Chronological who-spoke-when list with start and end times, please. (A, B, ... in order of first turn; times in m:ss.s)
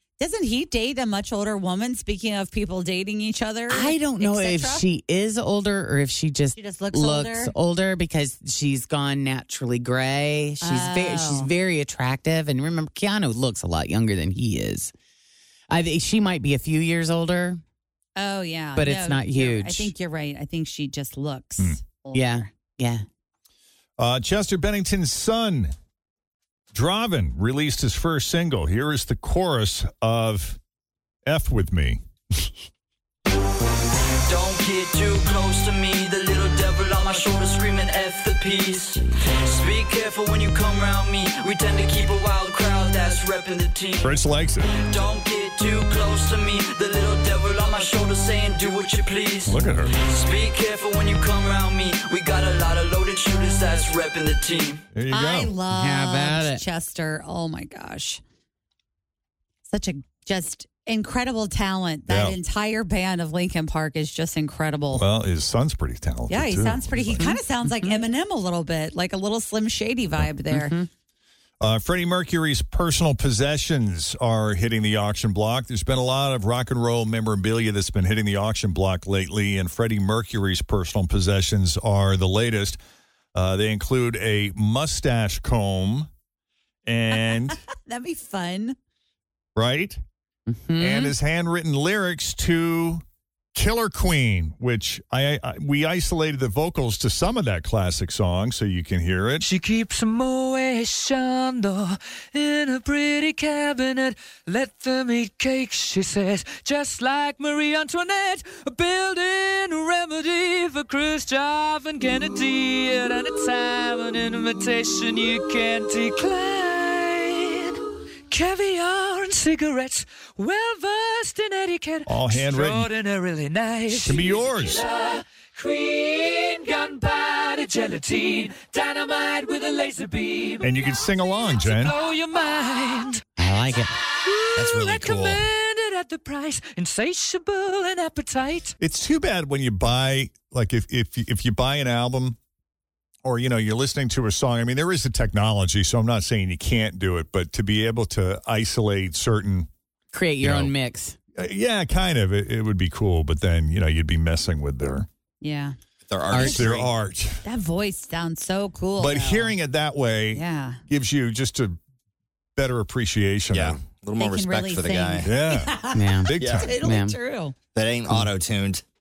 0:00.2-0:04.9 A
0:03.7-0:14.9 B
0:06.5-0:07.5 A
0:10.6-0:11.5 A
0:15.7-0:17.6 B
0:18.2-0:22.5 A
0:18.8-0:19.9 B
0:22.1-0:23.0 B
0:24.0-0:25.7 C
0:26.7-0:30.6 C
0:31.2-0:32.0 C
0:34.2-0:44.1 D
0:44.0-0:44.7 C
0:44.7-0:54.8 D
0:49.4-0:49.9 C
0:54.9-0:55.5 C
0:55.1-0:58.2 A
0:55.7-0:56.6 B
0:59.7-1:05.1 A
1:02.1-1:02.4 C
1:04.9-1:07.4 C
1:06.3-1:10.8 A
1:10.5-1:10.9 B
1:11.6-1:22.8 C
1:23.4-1:26.1 C
1:26.9-1:27.6 C
1:27.1-1:28.8 A
1:29.6-1:30.0 C
1:30.5-1:31.2 B
1:30.8-1:33.0 C
1:33.5-1:39.5 C
1:39.4-2:10.7 E
2:02.1-2:02.9 C
2:03.9-2:04.8 C
2:10.6-2:12.0 C
2:11.4-2:13.2 E
2:13.4-2:13.9 B
2:14.2-2:18.7 E
2:18.8-2:22.4 C
2:23.2-2:29.7 C
2:30.1-2:31.2 B
2:30.4-2:30.7 C
2:31.4-2:35.1 C
2:35.4-2:35.8 A
2:36.1-2:36.9 F
2:36.3-2:36.7 B
2:36.4-2:37.5 C
2:37.4-2:39.6 A
2:39.0-2:41.8 C
2:40.3-2:40.8 A
2:42.6-2:43.8 C
2:43.5-2:45.3 F
2:44.1-2:47.6 A
2:45.2-2:45.8 C
2:45.9-2:47.2 B
2:46.2-2:46.8 C
2:46.4-2:46.7 F
2:47.8-2:48.8 F